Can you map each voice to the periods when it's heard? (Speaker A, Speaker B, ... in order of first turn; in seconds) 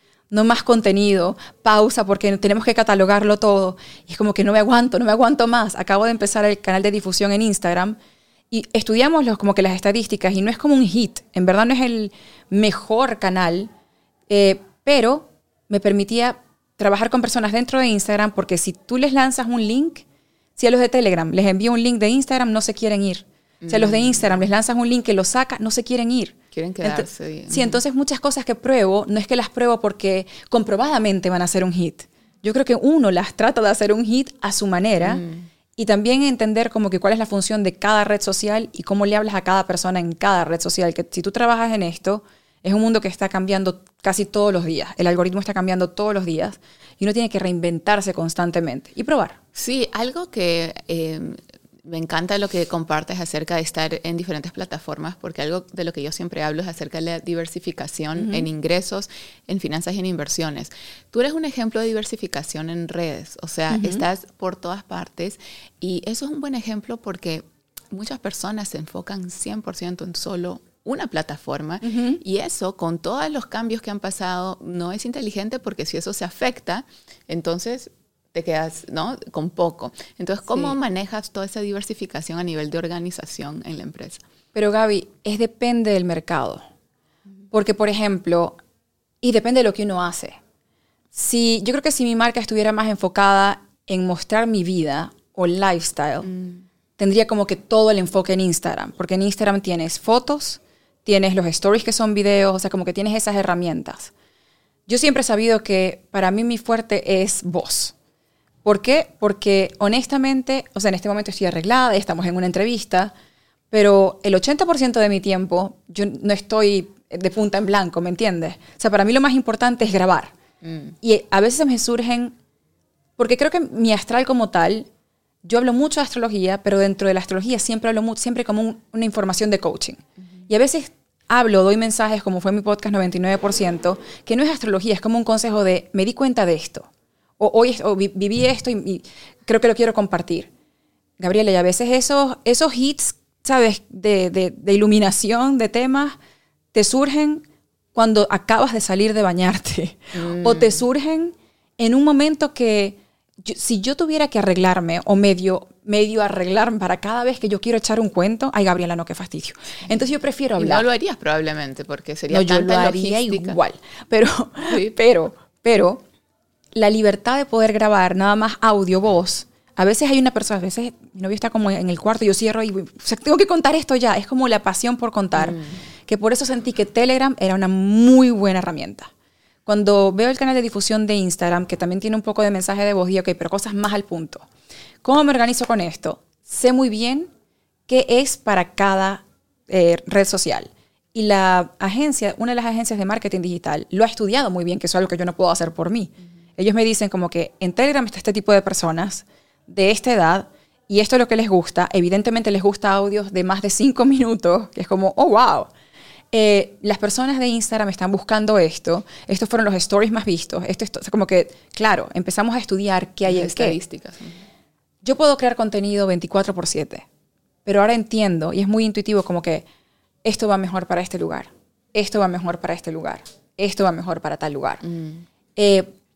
Speaker A: 0.3-8.0, 8.5-13.7, 14.3-20.0, 20.6-35.2, 35.8-49.4, 58.1-58.5, 63.7-64.0, 71.8-72.2, 80.5-80.7, 84.5-86.6, 87.5-88.6, 89.2-90.4, 91.1-96.3, 97.0-104.1, 104.9-107.9, 108.6-113.1, 113.7-120.3, 121.0-122.3, 123.2-124.9, 125.4-140.5, 141.2-146.2, 146.7-160.9, 162.3-166.0, 166.7-179.1, 179.7-184.4, 185.0-187.3, 187.9-205.7, 206.3-213.8, 215.0-217.1, 217.6-219.6, 220.2-224.8, 225.6-225.9
Speaker B: 23.6-24.4, 26.5-27.8, 35.0-35.5, 49.5-84.2, 96.3-96.6, 120.6-120.9, 150.1-150.8, 160.6-163.6, 164.7-164.9, 175.3-175.8, 213.2-214.4, 224.8-225.2